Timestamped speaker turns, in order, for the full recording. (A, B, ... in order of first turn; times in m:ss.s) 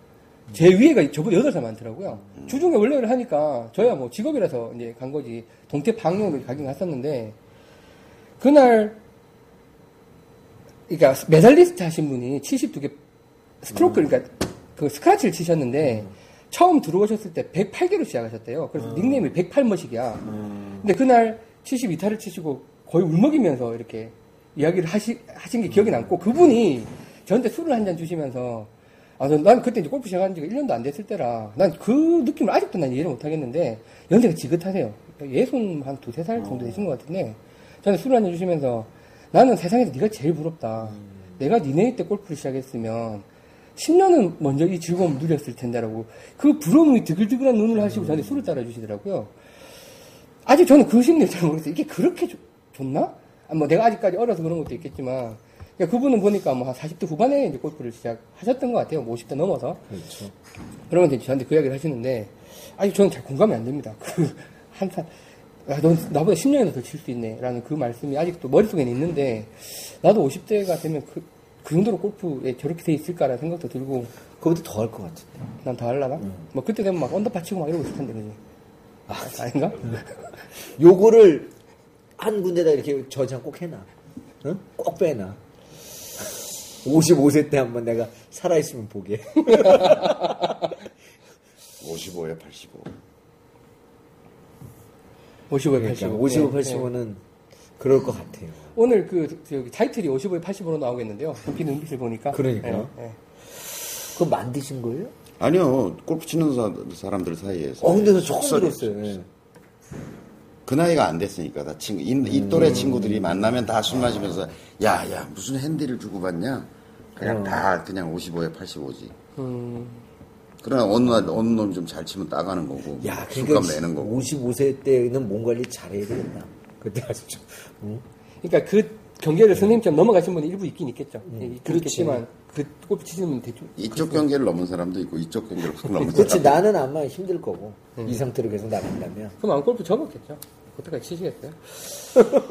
0:00.5-0:07.4 A
0:08.4-0:09.0 A
0:10.9-0:13.0 A
0:13.6-0:43.2 A
0:13.7-0:14.0 B
0:18.9-0:19.2 B
0:20.3-0:20.8 B
0:36.5-0:36.8 B
0:41.0-0:41.4 B
0:43.8-0:49.3 A
0:47.8-0:48.5 B
0:50.4-0:59.8 A
0:59.9-1:00.3 B
1:00.9-1:05.1 A
1:05.6-1:14.1 A
1:14.4-1:15.4 B
1:15.6-1:18.4 A
1:19.1-1:20.0 B
1:19.2-1:20.4 A
1:20.8-1:21.5 B
1:22.2-1:23.9 B
1:24.4-1:25.4 B
1:26.8-1:30.6 B
1:29.4-1:30.7 A
1:31.8-1:32.9 C
1:35.5-1:36.9 A
1:35.7-1:37.2 B
1:37.8-1:38.7 B
1:38.7-1:43.2 A
1:42.3-1:42.9 B
1:44.1-1:45.1 B
1:45.4-1:49.2 C
1:47.8-1:49.3 B
1:50.6-1:59.1 C
1:52.2-1:53.7 B
1:52.5-1:53.0 A
1:57.2-1:57.6 B
1:59.4-2:00.0 A
2:00.6-2:04.2 C
2:01.0-2:01.4 B
2:03.0-2:08.0 B
2:08.4-2:14.2 A
2:11.3-2:12.2 B
2:13.8-2:16.6 C
2:15.8-2:16.3 A
2:16.1-2:19.4 B
2:19.4-2:21.8 A